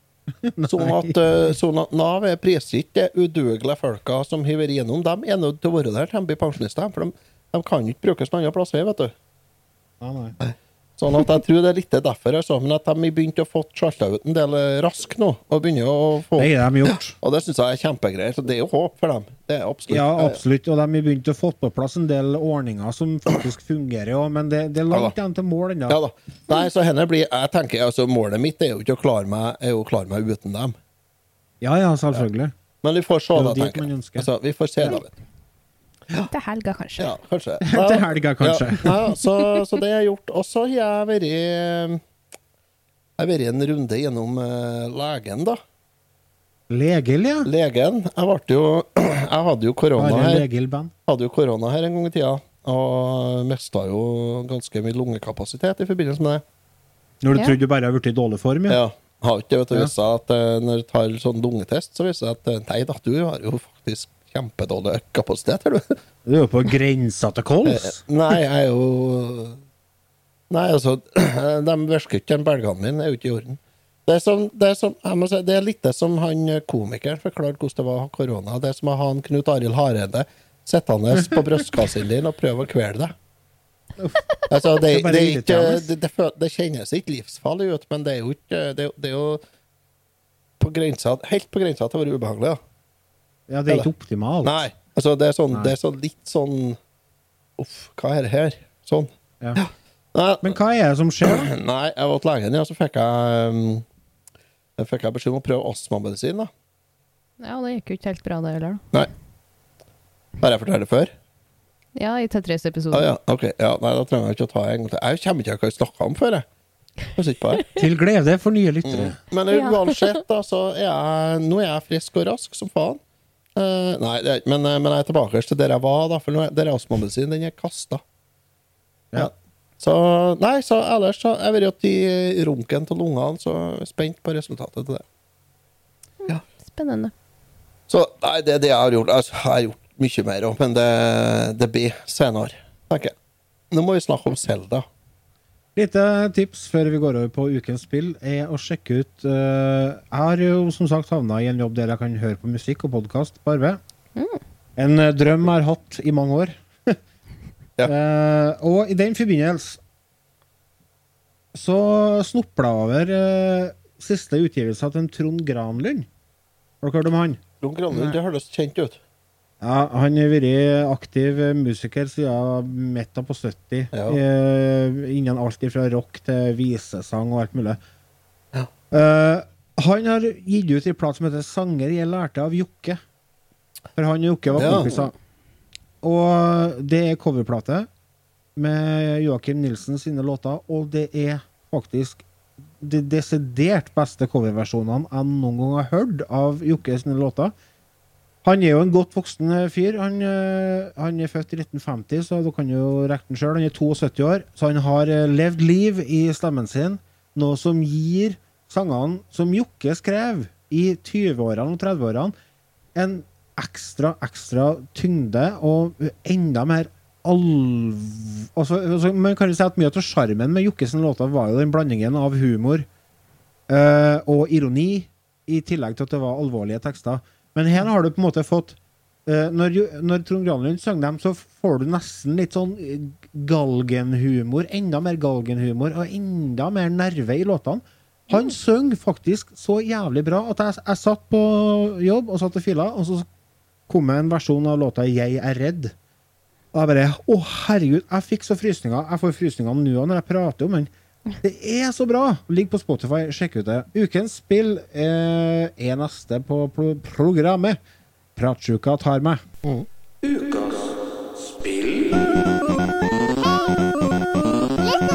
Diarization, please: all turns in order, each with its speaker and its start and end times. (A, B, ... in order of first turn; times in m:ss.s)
0:00.4-0:01.2 A
0:00.7-0:09.1 B
0:10.0-0:10.4 A
0:10.4-0:20.4 B
0:16.4-0:17.2 A
0:19.9-0:26.0 A
0:25.9-0:30.8 B
0:31.6-0:32.5 A
0:32.8-0:35.1 B
0:33.4-0:34.3 A
0:36.3-0:37.1 C
0:37.0-0:42.0 B
0:37.6-0:39.0 A
0:43.2-0:45.6 B
0:46.7-0:47.5 A
0:47.4-0:50.5 B
0:50.0-0:50.9 A
0:51.1-0:56.4 B
0:57.2-0:58.8 A
0:58.7-1:06.0 B
1:06.3-1:08.0 A
1:07.6-1:09.6 B
1:10.5-1:23.1 B
1:24.5-1:29.4 B
1:24.9-1:25.9 A
1:30.6-1:32.6 B
1:33.5-1:34.6 A
1:34.4-1:36.8 B
1:37.6-1:40.6 B
1:40.4-1:41.5 A
1:41.2-1:43.8 B
1:44.8-1:46.5 B
1:47.4-1:48.8 C
1:50.4-1:51.1 B
1:52.0-1:53.1 C
1:52.9-1:56.5 B
1:57.2-1:57.7 B
1:57.8-1:59.2 A
1:58.8-2:03.0 B
1:59.5-2:00.1 C
2:03.6-2:08.0 B
2:09.2-2:15.0 B
2:16.2-2:17.1 C
2:17.9-2:23.1 B
2:23.7-2:24.9 B
2:25.8-2:33.8 A
2:34.8-2:37.0 A
2:37.8-2:39.8 A
2:41.5-2:46.1 A
2:46.8-2:47.4 A
2:47.6-2:49.0 B
2:47.9-2:48.2 A
2:49.6-2:57.8 A
2:53.9-2:54.2 B
2:58.9-3:03.0 A
3:04.0-3:05.1 A
3:04.6-3:04.9 B
3:06.0-3:07.9 A
3:08.6-3:12.2 A
3:12.8-3:17.5 A
3:18.4-3:32.3 A
3:33.0-3:42.9 A
3:43.7-4:03.3 A
4:03.9-4:05.9 A
4:06.7-4:17.8 A
4:18.4-4:19.4 A
4:20.2-4:20.9 A
4:21.5-4:22.1 A